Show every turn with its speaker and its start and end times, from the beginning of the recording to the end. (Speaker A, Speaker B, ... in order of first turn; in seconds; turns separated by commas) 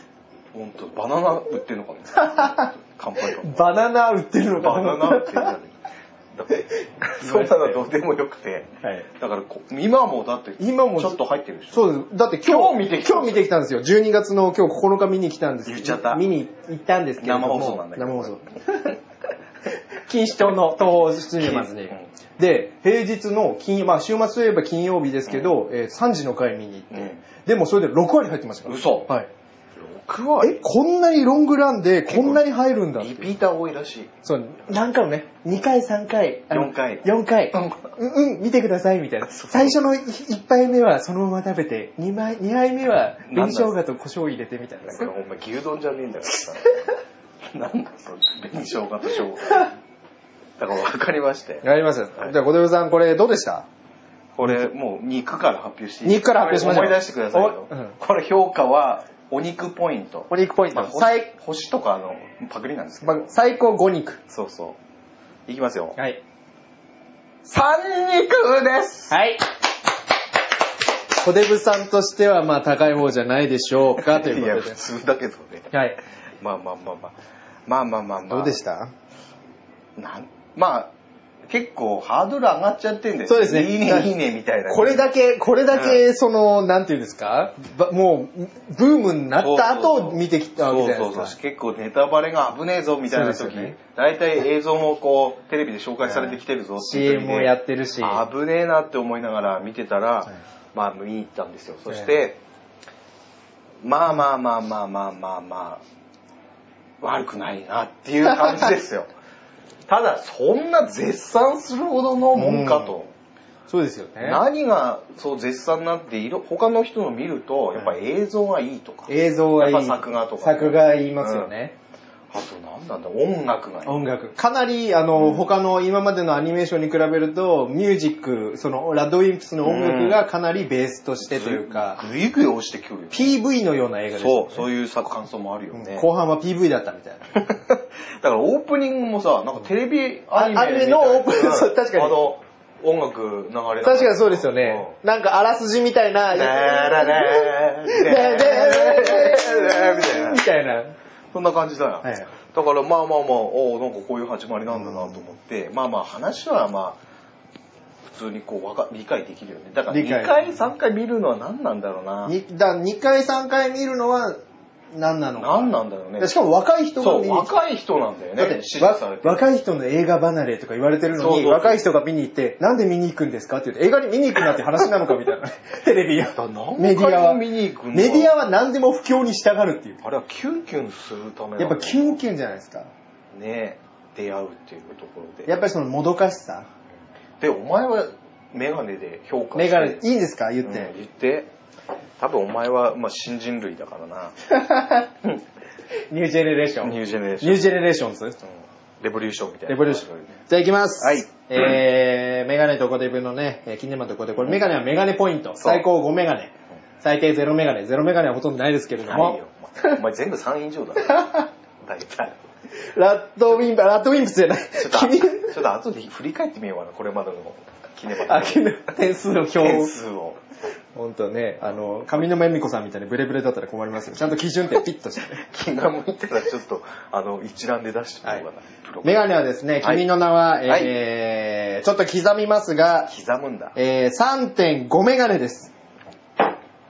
Speaker A: 0.5-3.7, Speaker B: 2.2-2.7, Speaker B: 3.2-5.5, Speaker A: 4.6-5.8, Speaker A: 6.3-13.5, Speaker B: 6.5-7.8, Speaker B: 8.8-9.1, Speaker B: 10.6-11.2, Speaker B: 11.7-19.0, Speaker A: 15.7-16.2, Speaker A: 17.2-18.4, Speaker B: 20.1-29.3, Speaker A: 21.4-22.1, Speaker A: 25.3-25.6, Speaker A: 26.9-27.2, Speaker A: 28.6-29.1, Speaker A: 29.8-30.6, Speaker B: 30.4-33.3, Speaker A: 32.1-32.4, Speaker A: 33.0-34.1, Speaker B: 34.2-45.1, Speaker A: 36.5-37.9, Speaker A: 39.3-39.8, Speaker A: 43.3-43.7, Speaker A: 44.8-46.9, Speaker A: 47.5-49.8, Speaker A: 50.6-51.6, Speaker B: 51.6-53.7, Speaker A: 54.4-63.3, Speaker B: 56.0-58.0, Speaker B: 60.3-61.3, Speaker B: 63.0-64.2, Speaker A: 64.3-64.8, Speaker A: 65.5-66.0, Speaker B: 66.0-66.2, Speaker A: 67.5-69.2, Speaker B: 69.1-69.5, Speaker B: 71.2-74.8, Speaker A: 73.9-75.7, Speaker B: 75.7-76.0, Speaker A: 76.4-78.6, Speaker B: 78.3-78.9, Speaker A: 80.0-80.9, Speaker A: 81.5-85.0, Speaker B: 83.3-84.1, Speaker B: 84.7-91.4, Speaker A: 85.7-86.0, Speaker A: 89.4-102.4, Speaker B: 93.1-93.8, Speaker B: 96.0-98.3, Speaker A: 103.8-105.8, Speaker A: 107.0-109.1, Speaker A: 109.9-113.1, Speaker B: 112.3-113.0, Speaker B: 113.7-114.4, Speaker A: 114.2-121.5, Speaker B: 119.1-121.8, Speaker A: 122.3-124.1, Speaker B: 123.8-132.1, Speaker A: 125.2-125.5, Speaker A: 129.6-130.2, Speaker A: 131.2-133.3, Speaker B: 133.1-134.7, Speaker A: 134.2-136.1, Speaker B: 135.7-137.5, Speaker A: 137.3-144.9, Speaker B: 140.3-142.2, Speaker B: 143.8-150.9, Speaker A: 146.3-150.4, Speaker A: 151.3-157.0, Speaker B: 152.0-152.3, Speaker B: 154.9-155.2, Speaker A: 158.1-162.3, Speaker B: 159.9-160.5, Speaker B: 162.3-164.4, Speaker B: 164.9-167.5, Speaker A: 165.4-166.3, Speaker A: 167.0-169.4, Speaker B: 168.4-180.0, Speaker A: 171.2-171.9, Speaker A: 176.3-178.3, Speaker A: 180.0-182.2, Speaker B: 181.6-182.9, Speaker A: 183.3-185.6, Speaker B: 185.5-186.7, Speaker A: 187.4-190.0, Speaker B: 189.6-190.9, Speaker A: 190.6-191.5, Speaker A: 192.2-194.4, Speaker B: 194.5-195.1, Speaker B: 196.1-198.4, Speaker A: 196.8-197.7, Speaker A: 198.5-200.4, Speaker B: 199.7-210.0, Speaker A: 201.0-201.8, Speaker A: 205.6-205.8, Speaker A: 209.0-212.4, Speaker B: 212.9-215.5, Speaker A: 214.8-218.7, Speaker B: 218.2-219.9, Speaker A: 219.5-220.4, Speaker B: 220.9-225.4, Speaker A: 225.4-229.3, Speaker B: 229.0-233.1, Speaker A: 230.7-231.0, Speaker A: 233.1-233.8, Speaker B: 233.8-235.7